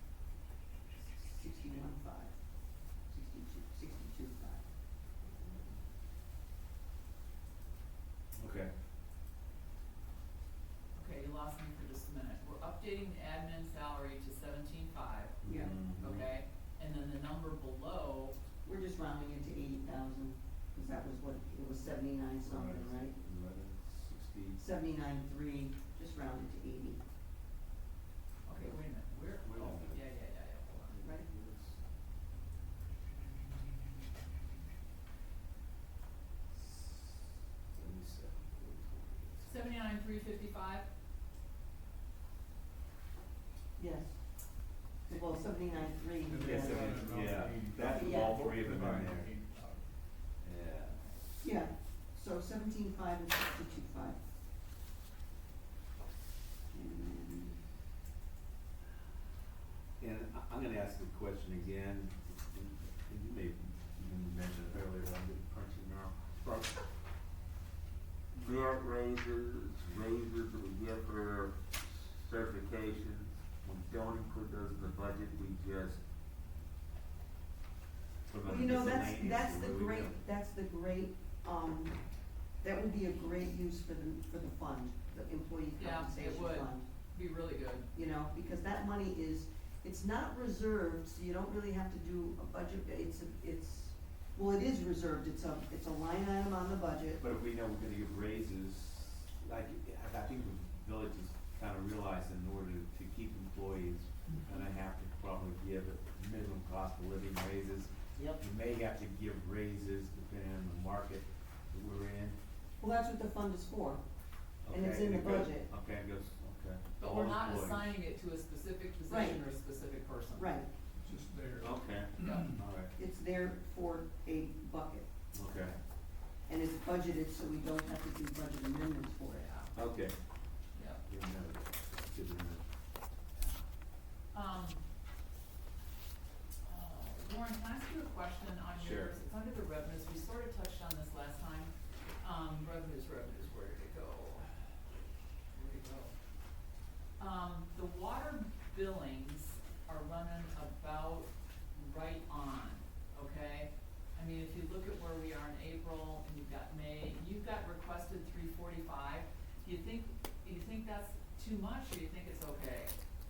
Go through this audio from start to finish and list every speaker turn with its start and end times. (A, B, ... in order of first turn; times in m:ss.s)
0:01.0-0:02.4 A
0:03.1-0:04.6 A
0:08.3-0:08.7 B
0:10.9-0:15.4 C
0:15.4-0:16.2 B
0:15.4-0:15.7 A
0:16.0-0:18.4 C
0:18.6-0:23.1 A
0:22.4-0:24.6 B
0:24.6-0:27.0 A
0:28.4-0:31.0 C
0:29.4-0:30.0 B
0:30.9-0:31.8 B
0:31.0-0:31.2 A
0:36.5-0:39.5 B
0:39.4-0:40.8 C
0:43.8-0:44.2 A
0:45.0-0:47.1 A
0:46.2-0:49.9 D
0:46.4-0:49.3 B
0:47.9-0:48.4 A
0:50.4-0:51.1 B
0:51.4-0:54.2 A
0:56.7-0:57.6 A
1:00.0-1:06.8 B
1:08.3-1:16.0 B
1:18.3-1:20.2 B
1:18.4-1:22.0 A
1:22.6-1:26.8 A
1:25.8-1:27.9 C
1:27.9-1:37.2 A
1:37.2-1:52.4 B
1:52.8-1:54.0 A
1:54.6-1:57.9 B
1:54.7-1:55.7 A
1:57.0-2:00.6 C
1:59.1-1:59.4 A
2:00.3-2:00.7 A
2:01.0-2:02.6 D
2:01.6-2:02.9 B
2:02.2-2:02.5 C
2:03.0-2:05.1 A
2:05.3-2:05.8 B
2:06.5-2:09.5 A
2:09.4-2:09.7 C
2:09.7-2:10.2 B
2:10.7-2:11.0 C
2:11.0-2:12.6 B
2:13.4-2:13.6 C
2:14.3-2:14.8 C
2:16.6-2:24.5 C
2:18.8-2:19.1 B
2:25.5-2:26.1 C
2:27.2-2:42.9 C